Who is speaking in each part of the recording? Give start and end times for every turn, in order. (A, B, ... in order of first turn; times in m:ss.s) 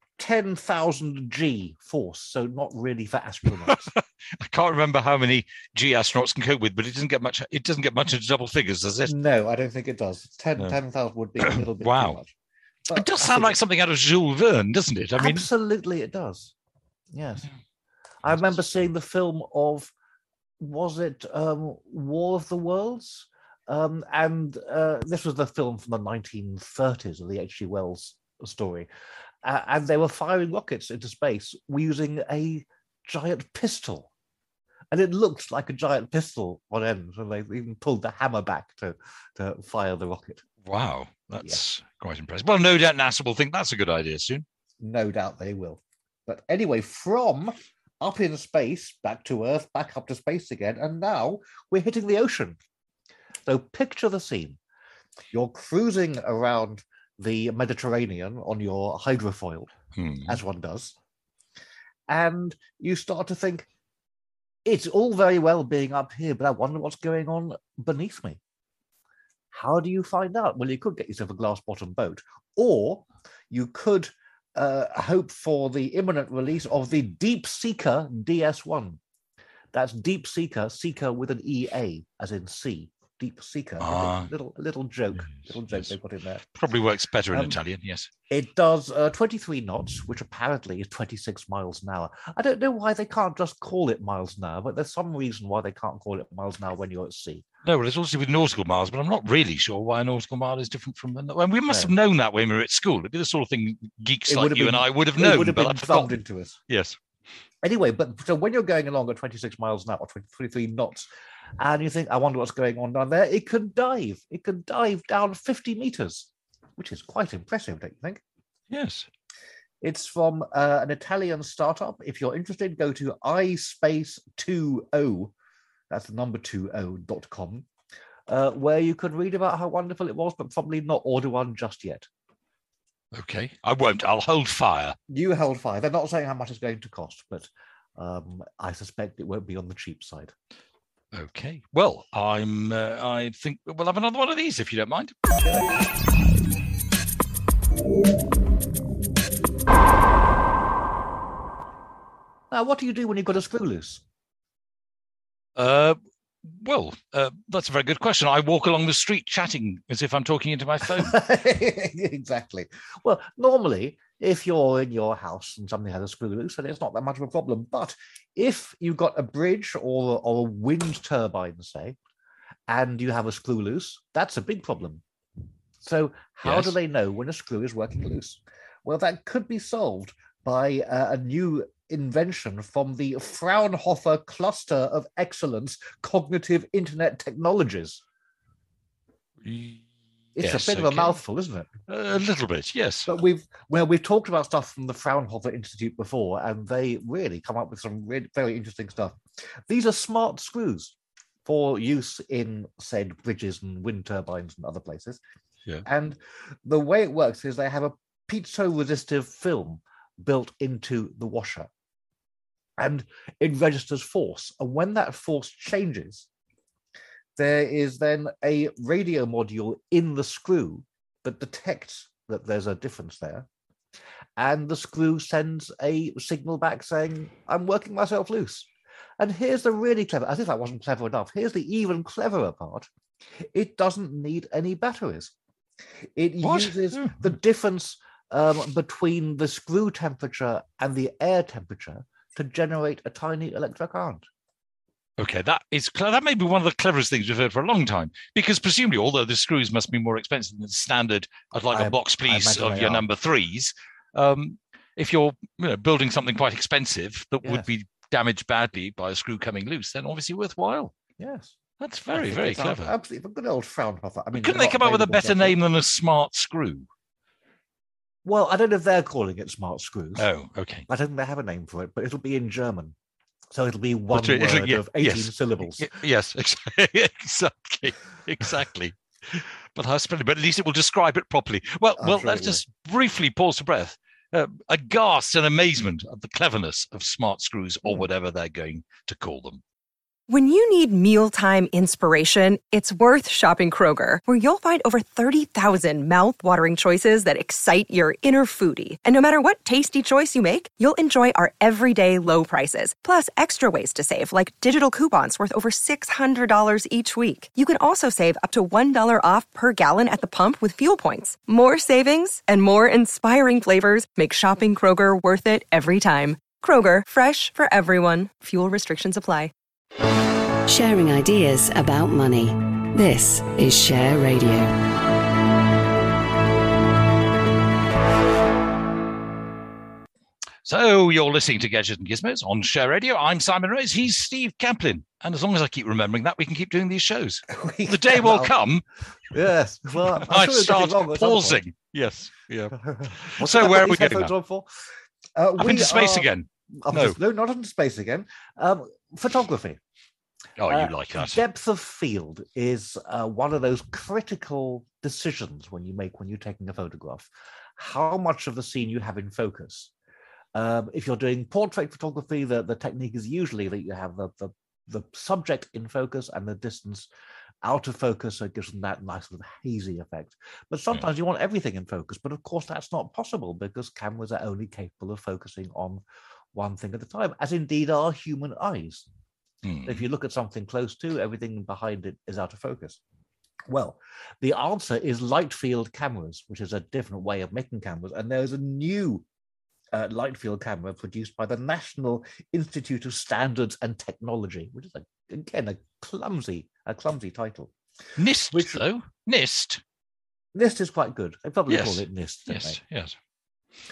0:00.2-0:03.9 A
0:03.5-0:09.1 B
0:09.1-0:12.3 A
0:11.4-0:12.2 B
0:12.9-0:13.6 A
0:12.9-0:15.5 B
0:15.2-0:16.5 A
0:17.1-0:17.5 A
0:18.2-0:19.9 A
0:18.3-0:18.6 B
0:20.6-0:28.9 A
0:29.4-0:34.1 A
0:34.9-0:40.4 A
0:40.6-0:44.5 B
0:44.8-0:52.6 A
0:53.5-0:54.6 A
0:55.3-0:59.7 A
0:59.9-1:00.4 B
1:00.3-1:01.0 A
1:02.1-1:03.7 A
1:04.7-1:08.4 A
1:09.5-1:19.0 A
1:19.7-1:26.4 A
1:23.8-1:24.3 B
1:25.3-1:25.9 B
1:26.6-1:28.1 B
1:27.3-1:27.6 A
1:28.3-1:37.4 A
1:37.6-1:47.0 B
1:41.7-1:41.9 A
1:44.3-1:46.6 A
1:47.6-1:51.1 A
1:51.6-1:58.2 A
1:58.7-1:59.1 B
1:59.8-2:05.3 A
2:05.9-2:07.7 A
2:08.3-2:12.1 A
2:13.1-2:15.0 B
2:15.1-2:20.4 A
2:21.1-2:25.4 B
2:32.5-2:34.0 A
2:35.6-2:41.2 B
2:40.9-2:52.0 A
2:52.7-2:55.0 A
2:55.8-3:08.0 A
2:56.4-2:56.8 B
3:09.4-3:11.2 B
3:10.4-3:11.7 A
3:11.9-3:13.2 B
3:13.1-3:19.2 A
3:19.7-3:20.9 A
3:21.5-3:25.2 A
3:25.8-3:31.7 A
3:32.8-3:36.3 A
3:37.4-3:43.5 A
3:44.4-3:48.7 A
3:49.2-3:52.9 A
3:53.4-3:55.3 A
3:56.2-4:04.3 A
3:56.4-3:57.3 B
4:05.2-4:20.9 B
4:11.7-4:13.1 A
4:21.2-4:21.5 A
4:21.8-4:23.0 B
4:22.1-4:25.6 A
4:24.3-4:26.9 B
4:28.2-4:30.3 A
4:30.2-4:30.9 B
4:30.9-4:33.0 A
4:33.5-4:35.9 A
4:34.1-4:49.6 B
4:42.0-4:42.6 A
4:50.3-5:19.5 C
5:20.7-5:24.7 D
5:30.6-5:38.8 B
5:37.5-5:38.6 A
5:39.3-5:41.6 A
5:40.0-5:44.3 B
5:42.8-5:44.8 A
5:45.4-5:49.8 A
5:45.6-5:47.2 B
5:50.6-5:51.4 B
5:50.7-5:59.9 A
6:00.6-6:07.1 A
6:07.6-6:16.0 A
6:16.5-6:19.1 A
6:19.6-6:20.0 B
6:19.8-6:23.0 A
6:23.7-6:29.2 A
6:29.9-6:37.7 A
6:38.2-6:39.8 B
6:38.5-6:38.8 A
6:40.6-6:42.8 A
6:41.7-6:43.2 B